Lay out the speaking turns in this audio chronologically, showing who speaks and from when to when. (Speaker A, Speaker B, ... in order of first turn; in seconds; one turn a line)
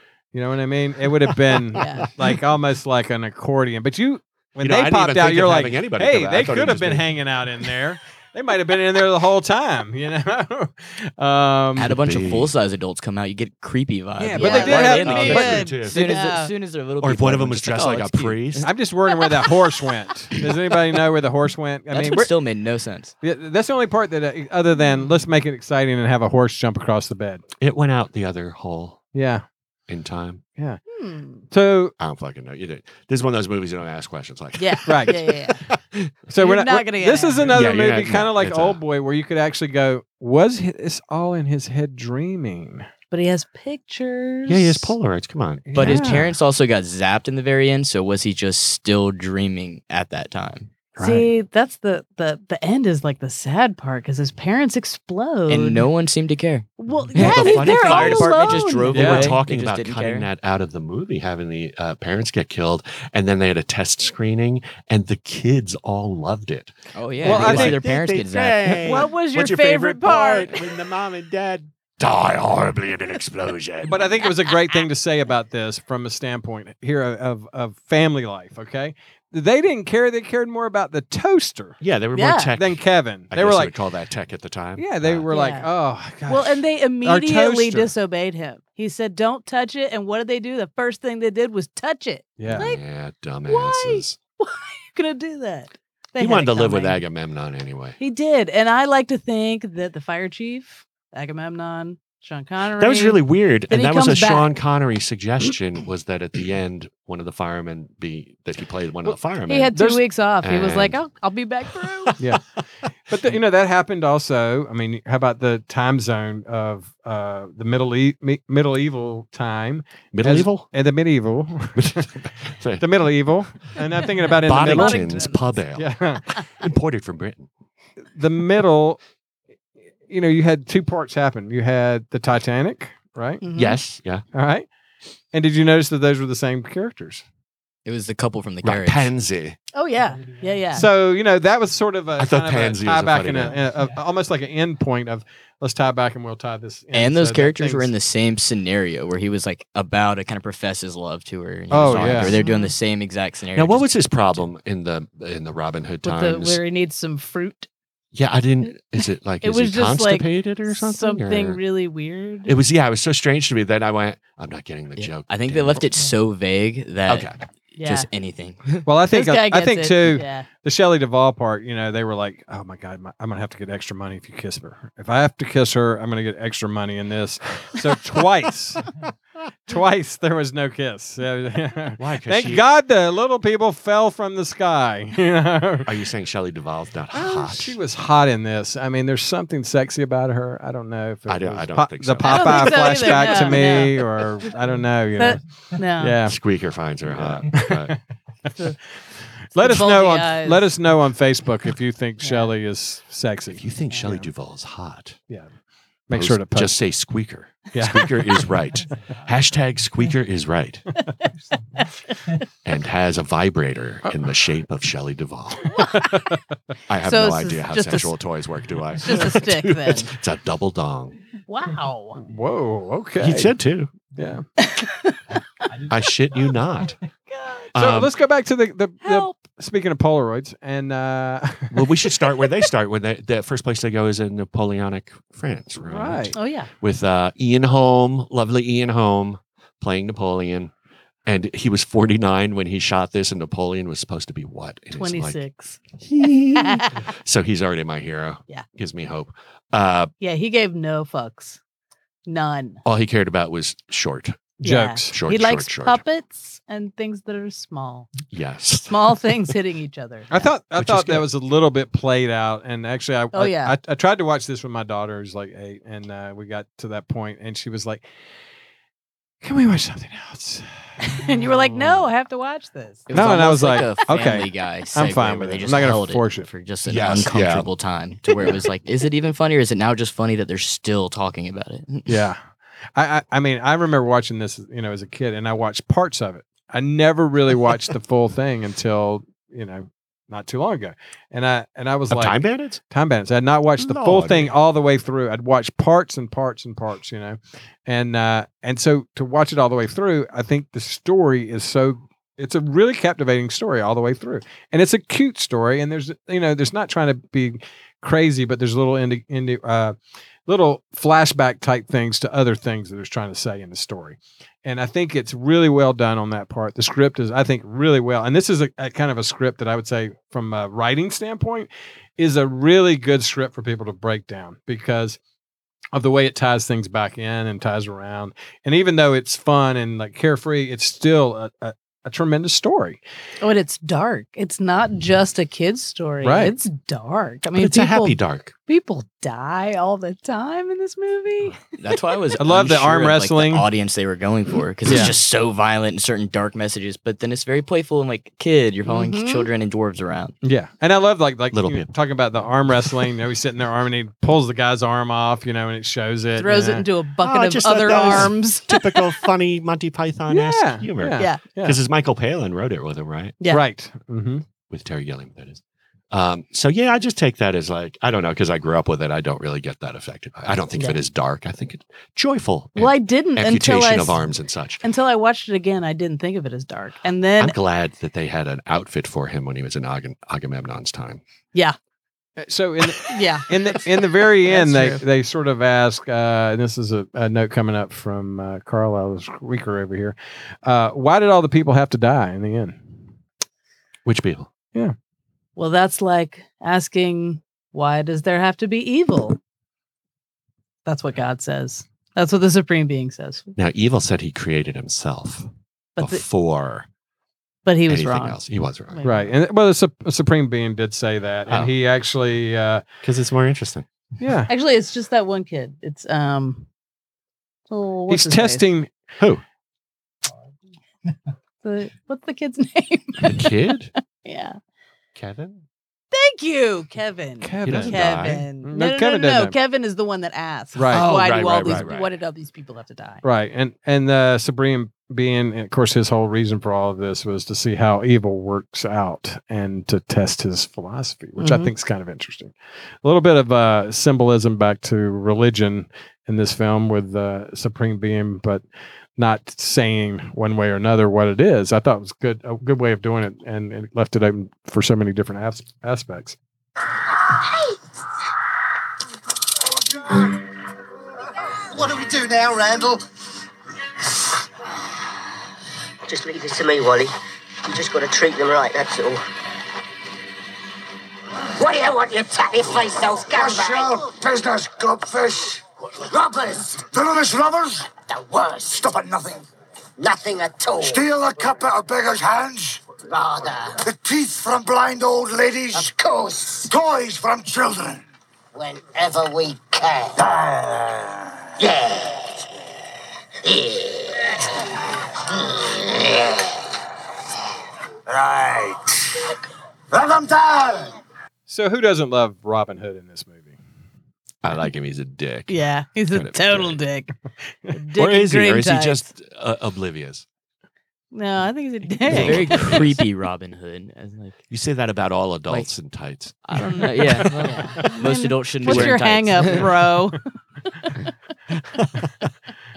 Speaker A: 0.3-11.9
Speaker B: 1.8-2.1
Speaker C: 4.6-7.1
Speaker D: 11.8-18.7
Speaker C: 11.8-12.5
Speaker A: 14.2-15.7
Speaker B: 14.3-16.5
Speaker C: 14.7-16.1
Speaker C: 17.0-18.7
Speaker A: 18.6-22.3
Speaker D: 21.9-23.1
Speaker A: 23.2-27.4
Speaker C: 27.6-29.0
Speaker A: 29.1-29.4
Speaker C: 29.9-30.4
Speaker B: 30.9-31.4
Speaker A: 31.5-31.9
Speaker C: 32.0-36.1
Speaker B: 34.6-35.6
Speaker A: 34.9-35.2
Speaker A: 36.3-42.9
Speaker B: 36.4-37.6
Speaker C: 37.5-38.8
Speaker B: 43.1-45.0
Speaker C: 44.5-46.4
Speaker A: 45.7-46.2
Speaker D: 45.8-50.7
Speaker A: 51.0-51.3
Speaker B: 51.0-55.9
Speaker D: 55.5-60.3
Speaker B: 56.8-59.1
Speaker C: 57.1-74.0
Speaker A: 58.9-59.3
Speaker D: 67.0-69.0
Speaker A: 67.2-67.8
Speaker B: 68.7-70.7
Speaker A: 73.8-81.8
Speaker C: 81.8-85.3
Speaker B: 82.1-82.5
Speaker A: 82.5-83.8
Speaker A: 84.8-87.9
Speaker B: 85.3-85.7
Speaker B: 86.3-92.8
Speaker A: 92.4-92.7
Speaker C: 92.5-94.2
Speaker B: 93.5-97.0
Speaker C: 96.2-98.0
Speaker B: 98.0-104.5
Speaker C: 102.8-109.8
Speaker B: 109.5-112.2
Speaker A: 109.7-110.0
Speaker C: 110.4-111.0
Speaker C: 111.7-112.2
Speaker A: 113.1-122.1
Speaker C: 120.1-120.7
Speaker C: 121.8-123.0
Speaker A: 122.8-126.2
Speaker B: 124.3-125.4
Speaker C: 124.4-127.5
Speaker A: 128.2-129.0
Speaker A: 130.1-133.4
Speaker B: 133.4-133.8
Speaker C: 133.6-134.2
Speaker A: 134.3-134.7
Speaker A: 135.3-137.2
Speaker D: 137.8-139.1
Speaker C: 138.6-139.6
Speaker B: 139.7-140.9
Speaker A: 140.7-147.9
Speaker C: 142.2-143.6
Speaker D: 146.9-154.4
Speaker A: 151.7-152.3
Speaker B: 152.2-152.7
Speaker C: 153.6-156.6
Speaker B: 156.0-157.7
Speaker C: 158.1-161.6
Speaker B: 159.4-162.5
Speaker C: 162.4-165.9
Speaker D: 165.0-168.9
Speaker C: 167.1-167.4
Speaker B: 167.8-168.1
Speaker A: 168.8-178.9
Speaker B: 169.1-170.5
Speaker A: 179.7-185.9
Speaker C: 182.0-182.7
Speaker C: 185.9-187.8
Speaker A: 187.1-195.4
Speaker C: 191.3-193.5
Speaker B: 192.2-194.0
Speaker B: 195.2-196.2
Speaker A: 195.9-196.4
Speaker C: 196.3-198.0
Speaker A: 197.1-198.0
Speaker A: 199.5-204.3
Speaker B: 199.6-200.7
Speaker B: 202.2-202.5
Speaker C: 203.5-205.2
Speaker A: 206.1-206.8
Speaker C: 206.1-210.9
Speaker A: 207.7-208.5
Speaker B: 211.8-212.4
Speaker C: 212.7-215.8
Speaker A: 215.8-216.4
Speaker C: 216.9-221.2
Speaker B: 217.0-218.1
Speaker B: 219.0-220.1
Speaker B: 221.5-222.2
Speaker A: 222.2-223.5
Speaker C: 223.2-223.9
Speaker A: 224.2-224.4
Speaker B: 224.6-225.7
Speaker C: 225.8-227.0
Speaker B: 227.3-227.7
Speaker C: 227.7-228.1
Speaker A: 227.8-232.0
Speaker B: 229.0-229.4
Speaker C: 231.7-240.7
Speaker A: 235.9-236.4
Speaker B: 236.3-236.7
Speaker C: 241.3-245.4
Speaker B: 244.9-245.8
Speaker C: 246.0-250.1
Speaker B: 246.5-247.1
Speaker B: 250.2-251.6
Speaker B: 252.3-252.8
Speaker C: 252.8-254.6
Speaker A: 254.6-255.2
Speaker B: 254.6-258.2
Speaker C: 255.1-256.0
Speaker C: 258.3-259.5
Speaker B: 258.9-260.5
Speaker A: 260.3-268.1
Speaker C: 260.8-261.3
Speaker B: 263.3-263.8
Speaker A: 269.4-270.7
Speaker B: 271.0-273.3
Speaker D: 273.1-282.1
Speaker A: 273.1-276.5
Speaker C: 276.9-277.7
Speaker A: 282.1-282.4
Speaker A: 283.0-325.2
Speaker C: 292.1-292.8
Speaker C: 293.8-294.6
Speaker A: 325.9-333.0
Speaker B: 333.4-341.6
Speaker A: 336.2-336.6
Speaker C: 337.6-338.5
Speaker D: 341.8-350.4
Speaker A: 342.4-343.7
Speaker A: 344.9-345.2
Speaker B: 348.9-349.5
Speaker A: 350.4-356.9
Speaker C: 351.5-351.9
Speaker B: 356.4-359.1
Speaker C: 357.2-363.4
Speaker A: 357.9-358.3
Speaker A: 360.3-361.8
Speaker B: 361.2-361.4
Speaker A: 363.5-364.4
Speaker C: 364.7-374.9
Speaker B: 372.8-374.2
Speaker B: 374.8-377.6
Speaker C: 377.4-381.2
Speaker A: 382.4-392.9
Speaker B: 383.0-385.0
Speaker C: 394.1-394.5
Speaker B: 395.6-399.4
Speaker B: 400.9-403.6
Speaker C: 403.6-405.5
Speaker B: 406.0-406.2
Speaker C: 406.0-406.9
Speaker B: 407.7-408.4
Speaker C: 407.9-409.2
Speaker B: 408.9-409.3
Speaker A: 409.0-412.8
Speaker C: 411.5-411.7
Speaker C: 413.0-413.9
Speaker A: 414.2-414.5
Speaker B: 414.5-416.7
Speaker B: 417.7-418.7
Speaker A: 418.1-418.9
Speaker B: 421.6-423.6
Speaker C: 423.2-423.9
Speaker B: 424.1-424.6
Speaker C: 425.2-425.6
Speaker B: 426.1-433.2
Speaker A: 427.4-429.6
Speaker C: 427.6-428.4
Speaker A: 430.8-431.1
Speaker C: 430.9-432.1
Speaker A: 433.2-448.6
Speaker B: 441.4-441.7
Speaker A: 449.2-456.4
Speaker E: 461.7-463.0
Speaker F: 466.1-469.2
Speaker F: 471.6-474.1
Speaker E: 473.3-475.6
Speaker F: 476.1-476.9
Speaker E: 476.9-477.9
Speaker F: 478.1-478.9
Speaker E: 478.7-479.5
Speaker F: 480.0-481.0
Speaker E: 480.8-482.9
Speaker F: 483.1-483.8
Speaker E: 483.8-485.9
Speaker F: 485.7-486.7
Speaker E: 486.7-488.0
Speaker F: 488.5-490.3
Speaker E: 490.2-491.1
Speaker F: 491.6-492.2
Speaker E: 498.1-498.9
Speaker E: 499.9-501.0
Speaker A: 501.5-503.6
Speaker C: 504.4-505.6
Speaker B: 505.5-507.1
Speaker C: 506.1-506.8
Speaker B: 507.7-509.1
Speaker C: 507.9-510.3
Speaker B: 511.1-512.8
Speaker C: 512.0-513.0
Speaker D: 512.1-514.4
Speaker C: 514.5-516.5
Speaker D: 516.5-519.8
Speaker A: 517.0-518.0
Speaker B: 517.4-521.1
Speaker C: 518.6-519.5
Speaker C: 521.5-522.3